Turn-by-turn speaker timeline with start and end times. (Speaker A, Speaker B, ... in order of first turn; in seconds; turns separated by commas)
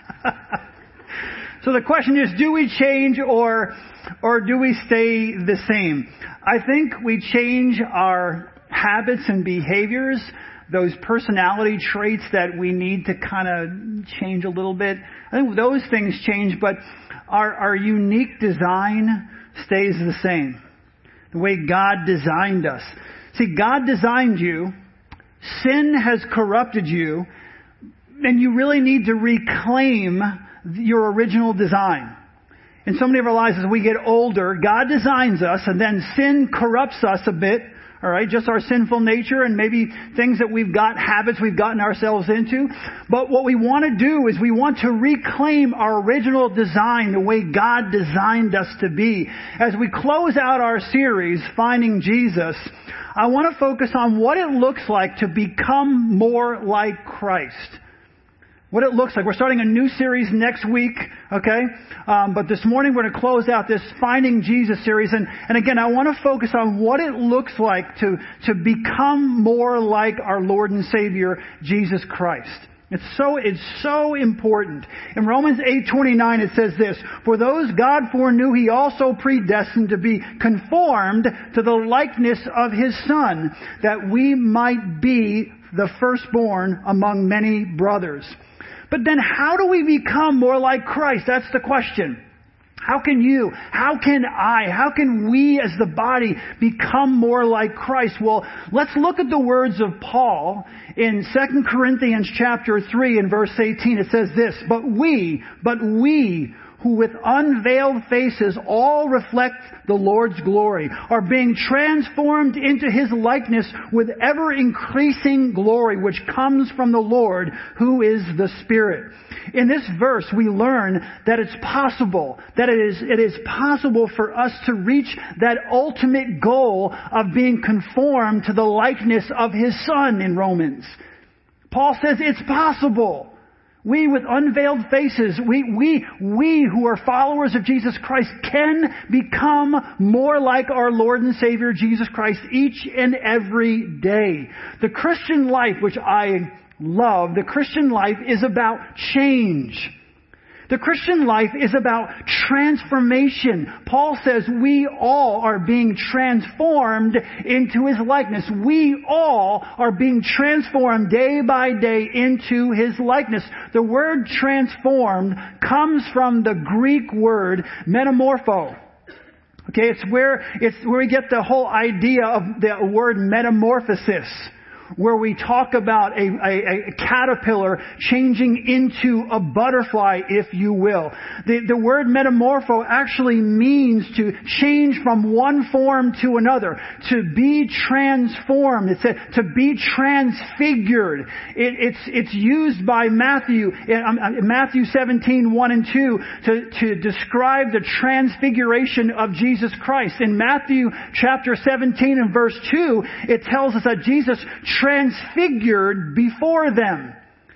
Speaker A: 1.6-20.6, Speaker A: 21.3-24.7, Speaker A: 25.4-27.3, Speaker A: 28.2-32.1, Speaker A: 32.9-57.8, Speaker A: 58.7-88.4, Speaker A: 88.9-92.2, Speaker A: 92.8-131.0, Speaker A: 131.7-149.9, Speaker A: 150.7-168.7, Speaker A: 169.7-207.1